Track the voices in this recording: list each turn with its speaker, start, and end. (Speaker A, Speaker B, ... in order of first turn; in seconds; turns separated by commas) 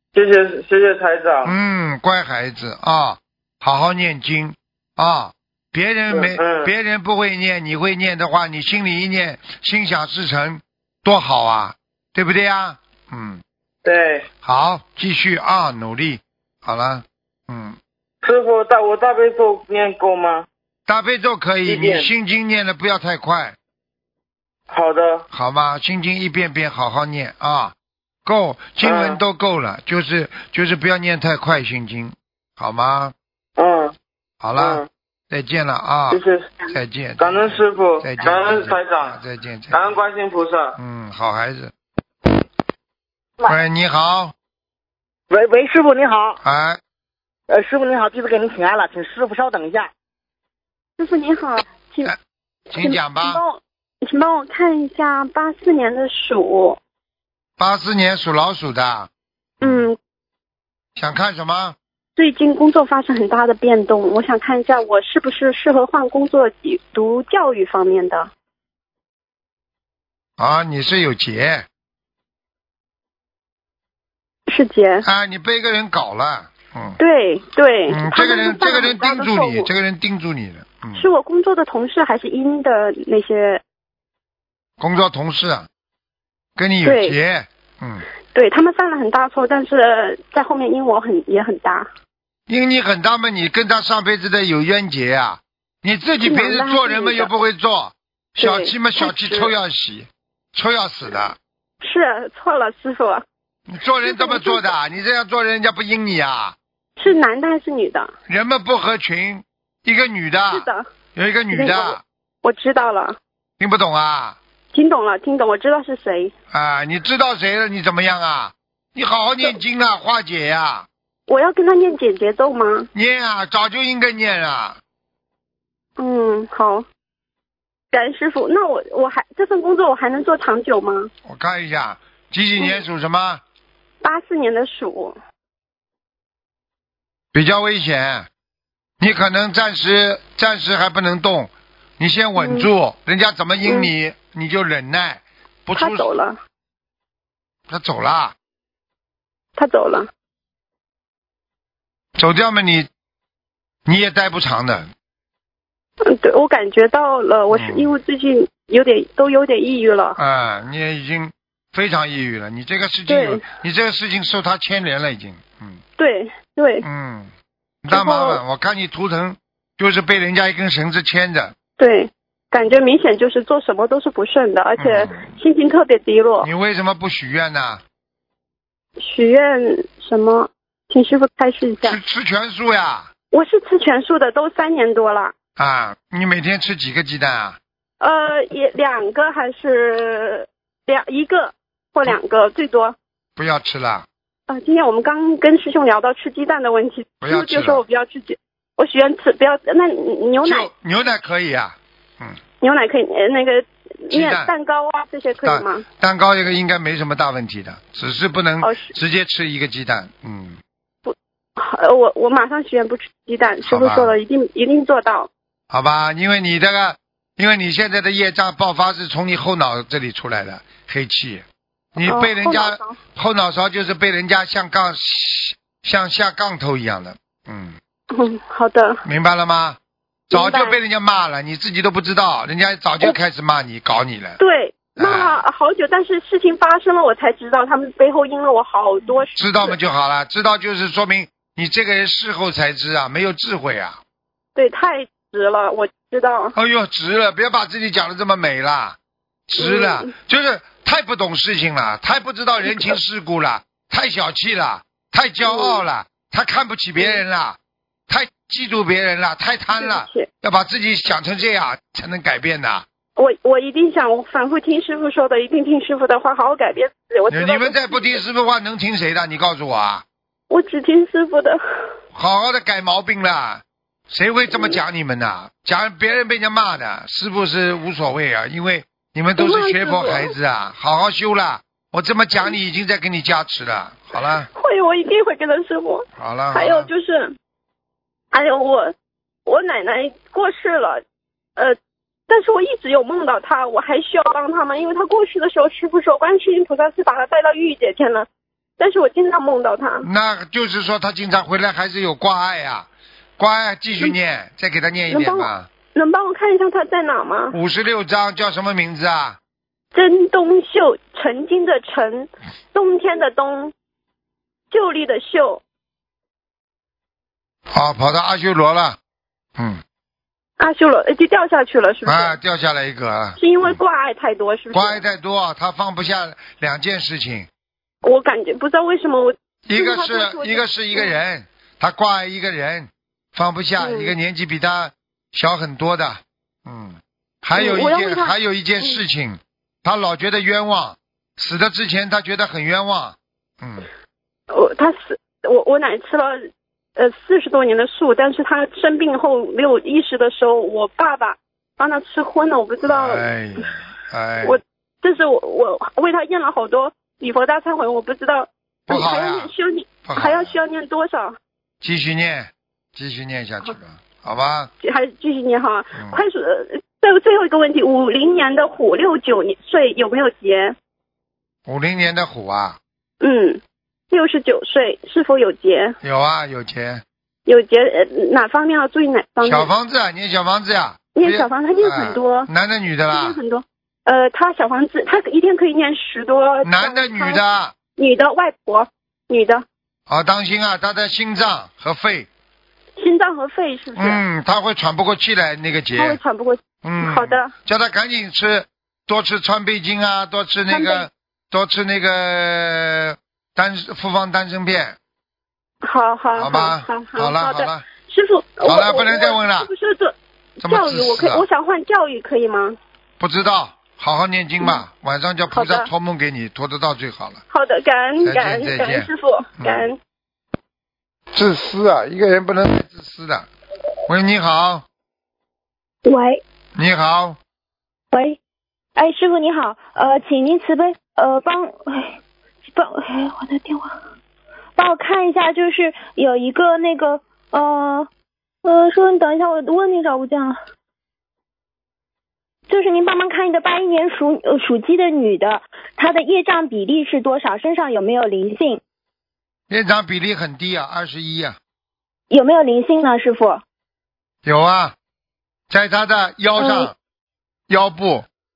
Speaker A: 0.1-1.5, Speaker B: 1.4-13.4, Speaker A: 6.1-6.7, Speaker A: 13.8-14.2, Speaker B: 14.4-17.8, Speaker A: 18.2-20.5, Speaker B: 20.9-23.6, Speaker A: 21.6-22.1, Speaker A: 24.7-25.2, Speaker B: 25.3-33.1, Speaker A: 28.8-29.2, Speaker A: 33.6-33.9, Speaker B: 34.4-40.0, Speaker A: 34.6-34.9, Speaker A: 36.1-36.5, Speaker A: 37.2-39.2, Speaker A: 39.7-40.8, Speaker B: 40.8-41.7, Speaker B: 43.4-44.3, Speaker C: 45.3-46.4, Speaker B: 46.4-46.8, Speaker C: 47.5-49.9, Speaker D: 51.0-52.1, Speaker B: 52.7-53.4, Speaker D: 52.7-56.8, Speaker B: 57.6-59.1, Speaker D: 59.6-60.0, Speaker B: 61.0-61.8, Speaker D: 62.1-68.3, Speaker B: 70.4-71.7, Speaker D: 74.5-75.0, Speaker B: 75.0-77.0, Speaker D: 77.0-79.7, Speaker B: 77.9-81.1, Speaker D: 80.9-83.6, Speaker B: 84.8-85.7, Speaker B: 86.6-88.0, Speaker D: 86.8-87.2, Speaker D: 88.3-91.9, Speaker B: 92.5-101.4, Speaker D: 96.2-97.3, Speaker D: 98.4-99.5, Speaker D: 101.8-103.2, Speaker B: 103.7-106.5, Speaker D: 104.0-104.7, Speaker D: 107.0-108.1, Speaker B: 108.3-112.0, Speaker D: 110.5-110.8, Speaker D: 111.5-113.2, Speaker B: 113.6-114.4, Speaker D: 114.7-116.3, Speaker B: 116.5-120.9, Speaker D: 121.3-122.9, Speaker B: 122.9-124.8, Speaker D: 126.0-126.8, Speaker D: 127.9-131.1, Speaker B: 131.2-133.4, Speaker D: 134.0-135.2, Speaker B: 137.3-138.3, Speaker B: 139.0-146.1, Speaker D: 142.4-142.7, Speaker D: 143.6-143.9, Speaker D: 145.8-146.4, Speaker B: 147.7-148.3, Speaker D: 149.6-150.1, Speaker B: 152.2-152.9, Speaker B: 153.8-154.9, Speaker D: 156.0-160.2, Speaker B: 157.5-157.9, Speaker B: 160.2-165.8, Speaker D: 163.1-163.4, Speaker D: 166.0-166.8, Speaker B: 166.8-167.3, Speaker B: 167.8-171.5, Speaker D: 167.9-168.4, Speaker D: 171.8-176.5, Speaker B: 174.8-175.2, Speaker B: 176.4-177.8, Speaker D: 179.0-182.0, Speaker B: 181.8-183.1, Speaker D: 183.3-185.3, Speaker B: 185.6-187.6, Speaker D: 188.0-192.9, Speaker B: 193.4-194.1, Speaker D: 194.5-200.7, Speaker B: 197.2-197.8, Speaker B: 200.4-202.4, Speaker D: 202.6-205.8, Speaker B: 204.1-204.5, Speaker B: 205.4-210.6, Speaker D: 208.6-208.9, Speaker D: 211.1-215.3, Speaker B: 213.6-214.2, Speaker B: 215.7-227.8, Speaker D: 222.0-223.0, Speaker D: 228.1-229.0, Speaker B: 229.0-229.8, Speaker D: 230.3-230.8, Speaker B: 230.3-234.4, Speaker D: 234.4-239.8, Speaker B: 235.0-235.4, Speaker B: 239.3-244.0, Speaker D: 244.5-246.5, Speaker B: 246.5-257.6, Speaker D: 249.6-250.1, Speaker D: 252.6-253.0, Speaker D: 255.4-255.8, Speaker B: 258.1-262.9, Speaker D: 259.7-260.3, Speaker D: 263.2-268.2, Speaker B: 267.3-270.0, Speaker D: 270.5-271.6, Speaker B: 272.1-284.5, Speaker D: 279.4-280.3, Speaker D: 284.5-287.3, Speaker B: 286.1-286.9, Speaker D: 288.3-288.9, Speaker D: 289.4-291.0, Speaker D: 292.3-298.3, Speaker D: 298.8-300.1, Speaker B: 300.0-305.7, Speaker D: 305.1-307.6, Speaker B: 307.5-309.4, Speaker D: 309.9-313.7, Speaker D: 314.7-315.6, Speaker B: 317.7-319.0, Speaker D: 320.6-322.4, Speaker B: 322.0-323.8, Speaker D: 323.4-325.0, Speaker B: 324.7-327.5, Speaker D: 328.0-331.1, Speaker B: 329.7-343.9, Speaker D: 333.8-334.1, Speaker D: 337.5-339.0, Speaker D: 344.5-346.4, Speaker D: 347.0-353.6, Speaker B: 352.8-354.6, Speaker D: 354.4-361.4, Speaker B: 358.9-359.5, Speaker B: 360.0-360.5, Speaker B: 361.8-364.7, Speaker D: 364.8-370.8, Speaker B: 365.9-366.2, Speaker B: 371.6-372.8, Speaker D: 373.2-375.9, Speaker B: 376.0-377.0, Speaker D: 377.4-379.7, Speaker B: 379.4-383.4, Speaker D: 381.1-382.5, Speaker D: 383.1-387.4, Speaker B: 386.6-387.7, Speaker D: 388.0-389.6, Speaker B: 390.1-392.3, Speaker D: 393.0-394.2, Speaker B: 393.9-396.2, Speaker D: 395.9-397.5, Speaker B: 396.8-405.0, Speaker D: 400.7-401.1, Speaker D: 405.8-412.8, Speaker B: 406.3-407.8, Speaker B: 408.6-409.7, Speaker B: 410.6-411.4, Speaker B: 413.2-417.4, Speaker D: 415.5-415.9, Speaker D: 417.5-420.0, Speaker B: 418.2-419.1, Speaker B: 419.6-419.9, Speaker B: 421.3-423.5, Speaker B: 424.1-424.8, Speaker E: 426.0-426.4, Speaker B: 426.7-427.4, Speaker E: 428.1-428.4, Speaker E: 428.9-432.1, Speaker E: 432.6-434.0, Speaker E: 434.8-438.1, Speaker E: 438.6-440.6, Speaker E: 442.7-448.8, Speaker B: 449.7-451.6, Speaker E: 452.3-453.6, Speaker B: 454.4-454.9, Speaker B: 455.7-456.9, Speaker E: 456.6-456.9, Speaker B: 457.7-458.2